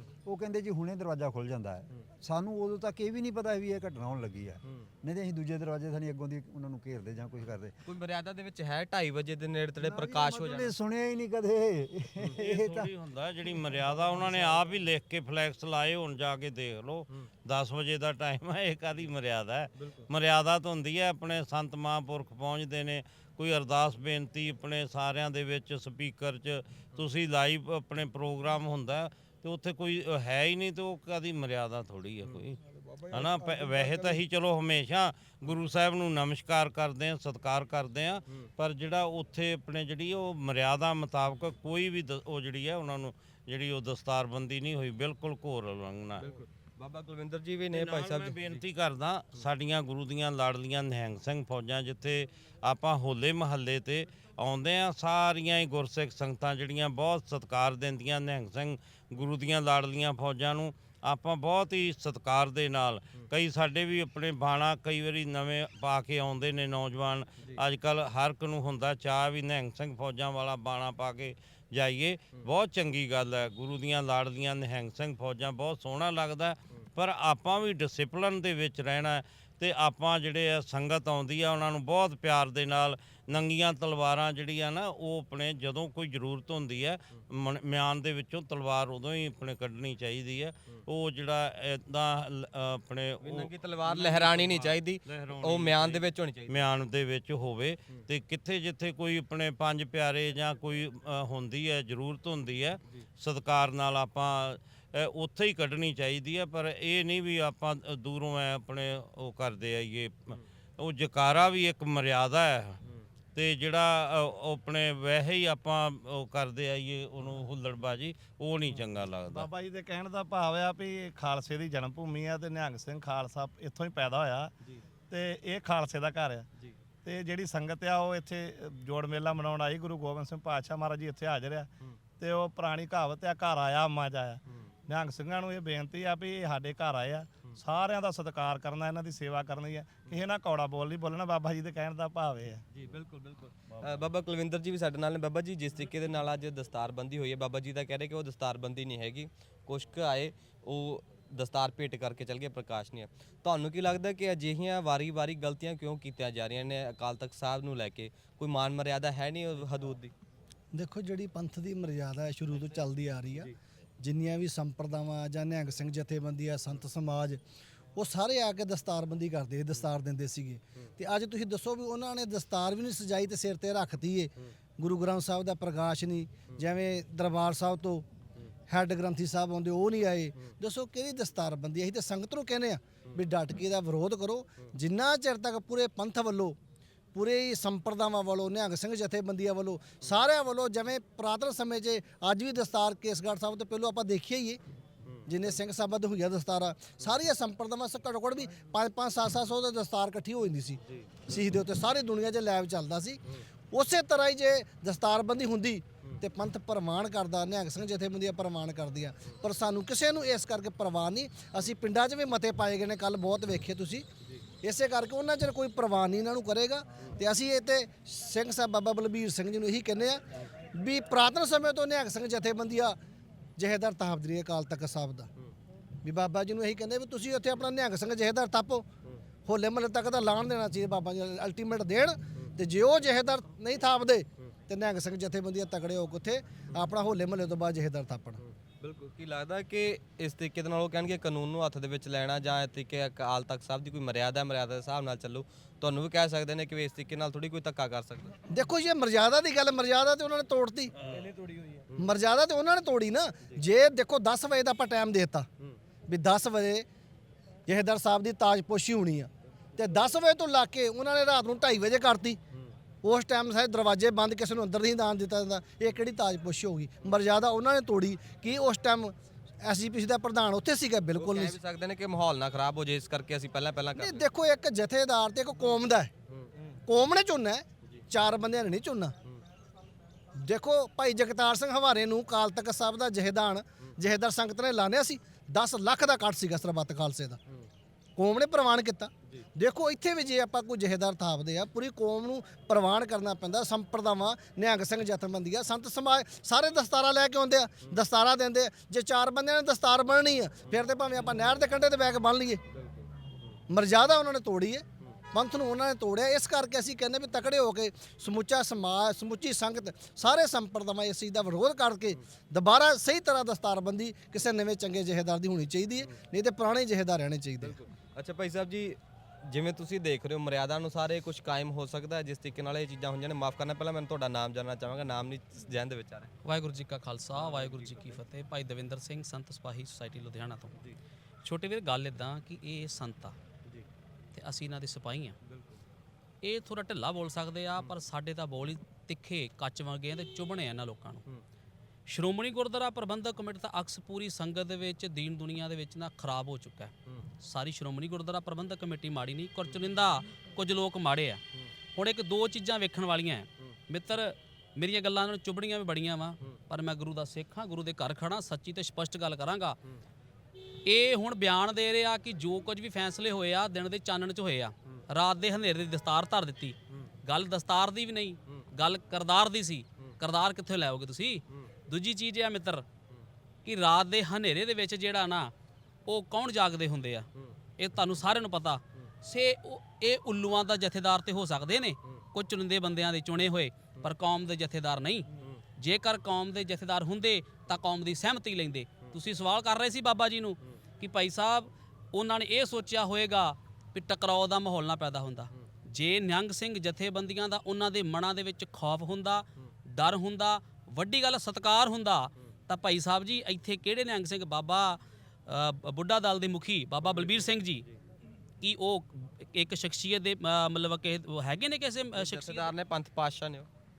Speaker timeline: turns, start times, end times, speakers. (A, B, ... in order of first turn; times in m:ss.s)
0:00.2-0:07.8 A
0:07.8-0:10.7 B
0:09.8-0:12.9 A
0:12.2-0:32.6 C
0:19.8-0:20.1 B
0:33.1-0:46.2 C
0:33.5-0:34.2 A
0:46.2-0:48.6 B
0:47.7-1:52.8 C
1:33.2-1:36.7 B
1:53.4-1:59.5 C
1:59.3-2:04.5 D
2:05.1-2:06.5 D
2:07.0-2:22.6 D
2:22.7-2:40.1 B
2:40.7-2:43.5 E
2:44.0-2:47.4 E
2:48.0-2:58.0 E
2:58.7-3:06.6 E
3:07.2-3:14.6 E
3:15.3-3:34.1 E
3:20.9-3:21.2 B
3:34.6-3:40.2 E
3:40.8-3:43.0 E
3:43.6-3:45.3 E
3:46.0-3:48.9 E
3:49.5-3:58.4 E
3:58.4-4:08.3 B
4:08.5-4:10.9 E
4:11.1-4:12.1 B
4:12.0-4:15.5 E
4:16.1-4:16.9 E
4:17.7-4:22.4 E
4:23.0-4:31.6 E
4:31.2-4:34.3 B
4:34.0-4:36.1 E
4:36.9-4:39.2 E
4:40.4-4:47.4 E
4:48.2-5:02.6 E
5:02.7-5:03.5 B
5:03.7-5:17.8 E
5:17.6-5:26.3 B
5:26.4-5:30.8 F
5:27.4-5:28.2 B
5:31.4-5:33.4 F
5:34.3-5:35.4 F
5:35.4-5:35.8 B
5:36.4-5:41.2 F
5:42.1-5:51.4 F
5:52.0-5:59.8 F
6:00.8-6:12.9 F
6:13.6-6:15.5 F
6:16.1-6:47.8 F
6:47.0-6:48.0 B
6:48.6-6:52.7 F
6:52.2-6:53.7 B